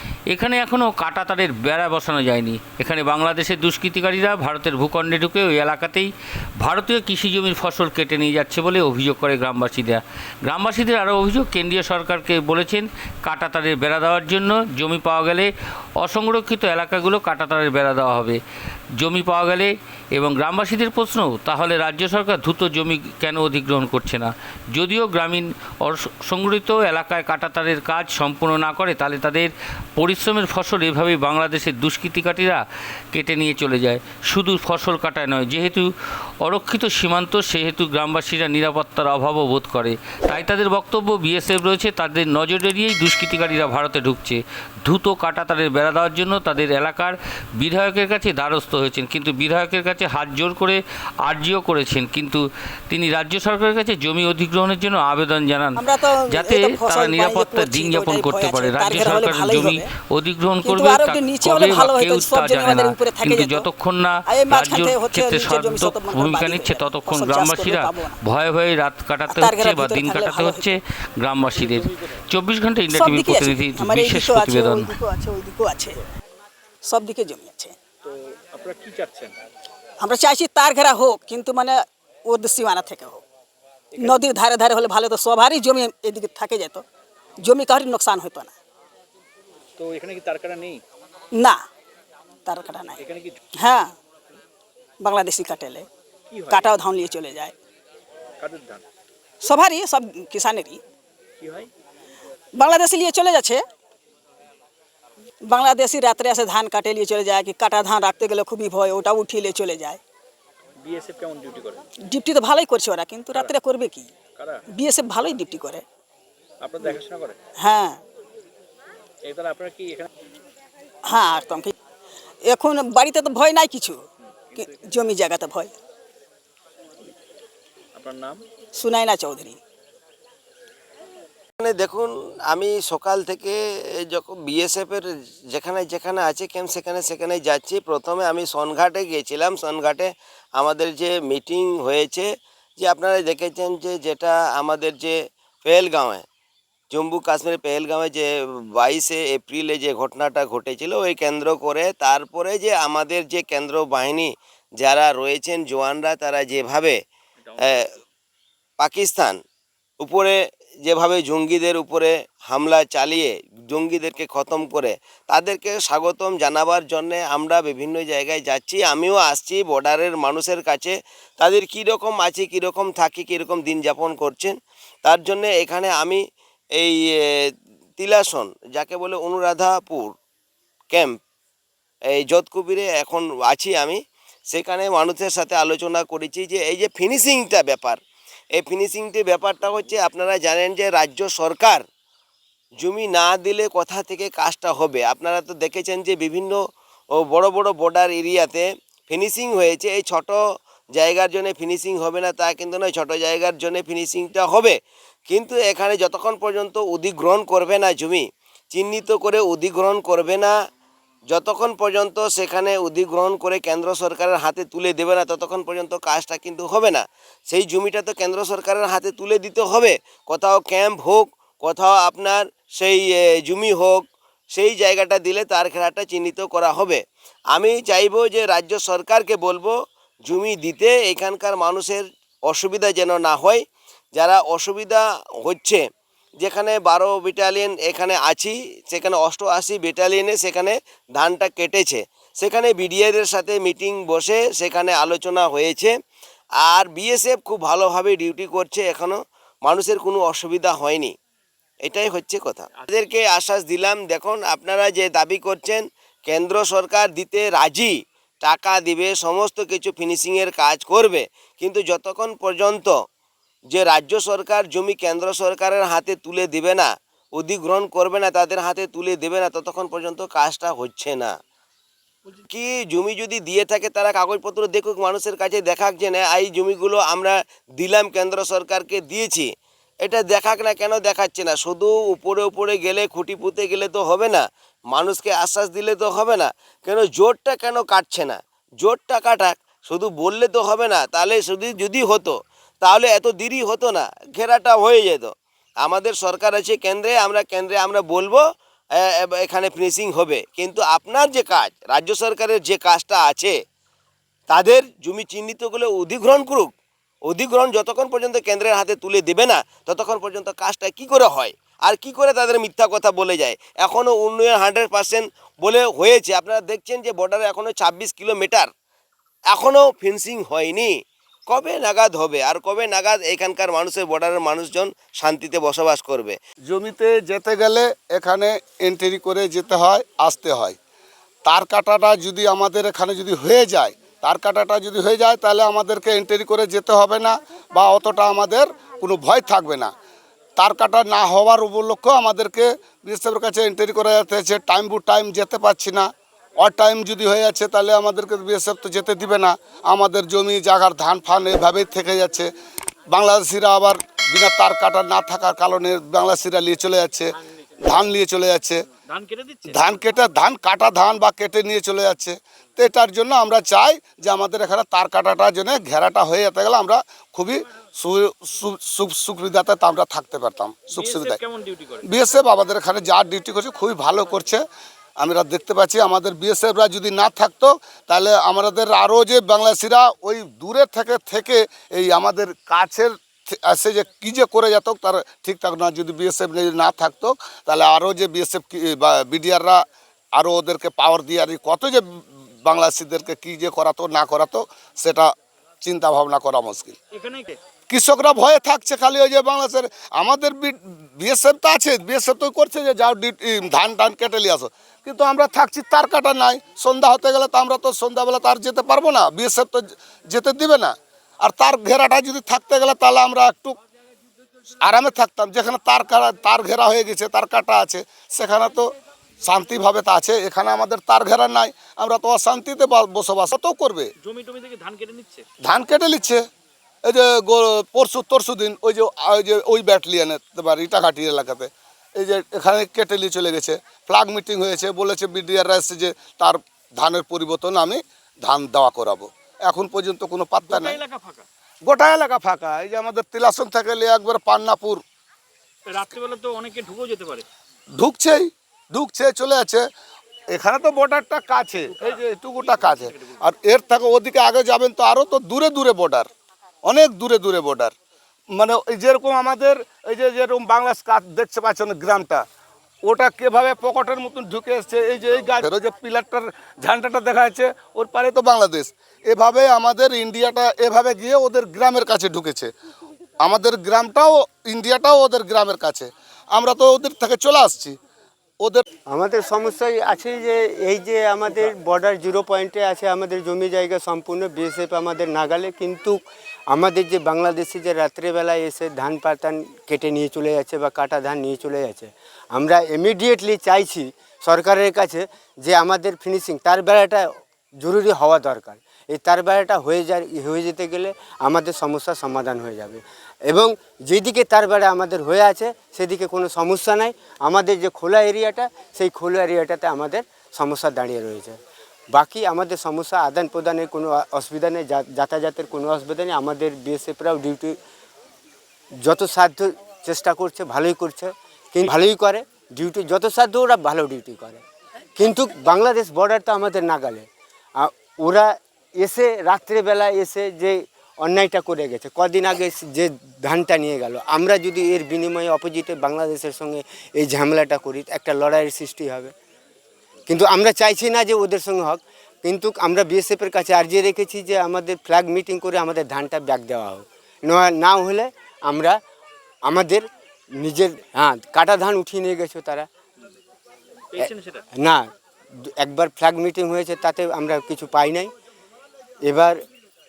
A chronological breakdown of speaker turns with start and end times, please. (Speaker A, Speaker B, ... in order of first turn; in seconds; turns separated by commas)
Speaker A: 0.3-6.1, Speaker A: 6.6-18.4, Speaker A: 19.0-32.6, Speaker A: 33.1-35.9, Speaker A: 36.4-74.9, Speaker B: 55.8-59.9, Speaker B: 60.6-63.7, Speaker B: 64.2-68.2, Speaker B: 69.3-70.7, Speaker C: 71.5-72.2, Speaker B: 72.9-76.0, Speaker B: 76.8-77.8, Speaker C: 78.0-79.4, Speaker B: 80.0-83.2, Speaker C: 83.9-84.3, Speaker B: 84.0-86.8, Speaker B: 87.4-88.5, Speaker C: 89.8-90.8, Speaker B: 92.5-93.0, Speaker C: 93.0-93.4, Speaker B: 93.6-93.9, Speaker B: 95.0-95.9, Speaker C: 96.3-96.8, Speaker B: 96.5-97.5, Speaker C: 98.4-98.8, Speaker B: 99.4-100.8, Speaker C: 101.4-101.7, Speaker B: 102.5-103.6, Speaker B: 105.5-110.0, Speaker C: 110.8-111.8, Speaker B: 112.1-114.1, Speaker C: 114.3-114.6, Speaker B: 114.7-115.8, Speaker C: 116.6-117.4, Speaker B: 117.6-118.0, Speaker C: 119.2-120.1, Speaker B: 121.1-121.7, Speaker B: 122.5-124.0, Speaker C: 124.3-124.8, Speaker B: 124.6-125.7, Speaker C: 127.9-128.4, Speaker B: 128.8-129.6, Speaker D: 131.6-146.2, Speaker D: 146.9-157.0, Speaker C: 157.4-158.0, Speaker D: 158.8-159.4, Speaker D: 160.0-176.2, Speaker D: 176.8-177.2, Speaker D: 178.0-180.1, Speaker D: 180.9-181.2, Speaker D: 182.1-188.0, Speaker D: 188.5-191.8, Speaker D: 192.8-196.6, Speaker D: 197.2-200.4, Speaker D: 200.9-204.8, Speaker D: 205.3-210.5, Speaker D: 211.3-224.0, Speaker D: 224.5-227.0, Speaker D: 227.5-229.7, Speaker D: 230.2-235.8, Speaker D: 236.4-245.9, Speaker D: 246.6-251.1, Speaker D: 251.8-262.9, Speaker D: 263.7-271.3, Speaker D: 272.5-279.5, Speaker D: 280.1-295.3, Speaker D: 295.8-298.4, Speaker D: 299.0-303.6, Speaker D: 304.5-306.7, Speaker D: 307.3-318.7, Speaker D: 319.5-320.9, Speaker D: 321.5-326.4, Speaker E: 326.6-330.8, Speaker E: 331.4-339.9, Speaker E: 340.6-346.1, Speaker E: 346.6-352.5, Speaker E: 353.1-357.3, Speaker E: 357.8-358.8, Speaker C: 358.9-359.9, Speaker E: 359.7-371.4, Speaker C: 370.9-372.1, Speaker E: 372.1-374.6, Speaker E: 375.2-389.8, Speaker E: 390.3-392.1, Speaker E: 392.6-395.3, Speaker E: 395.8-396.9, Speaker C: 397.1-397.6, Speaker E: 397.9-413.8, Speaker E: 414.8-418.9, Speaker E: 419.4-424.1, Speaker C: 424.2-425.5, Speaker E: 425.6-426.4, Speaker E: 427.1-441.0, Speaker C: 440.6-441.4, Speaker E: 441.8-445.0, Speaker C: 445.9-447.4, Speaker E: 448.0-449.9, Speaker E: 450.5-456.3, Speaker C: 451.9-453.3, Speaker E: 456.8-457.9, Speaker E: 458.6-462.4, Speaker E: 463.1-472.7, Speaker E: 473.4-477.9, Speaker F: 479.1-486.2, Speaker F: 486.7-497.3, Speaker F: 497.8-511.6, Speaker F: 512.1-517.8, Speaker F: 519.0-524.6, Speaker F: 525.2-527.3, Speaker F: 527.8-539.3, Speaker F: 540.3-549.0, Speaker F: 549.7-550.1, Speaker F: 550.6-552.9, Speaker C: 554.1-554.6, Speaker F: 554.2-555.1, Speaker F: 555.8-558.3, Speaker F: 559.2-559.6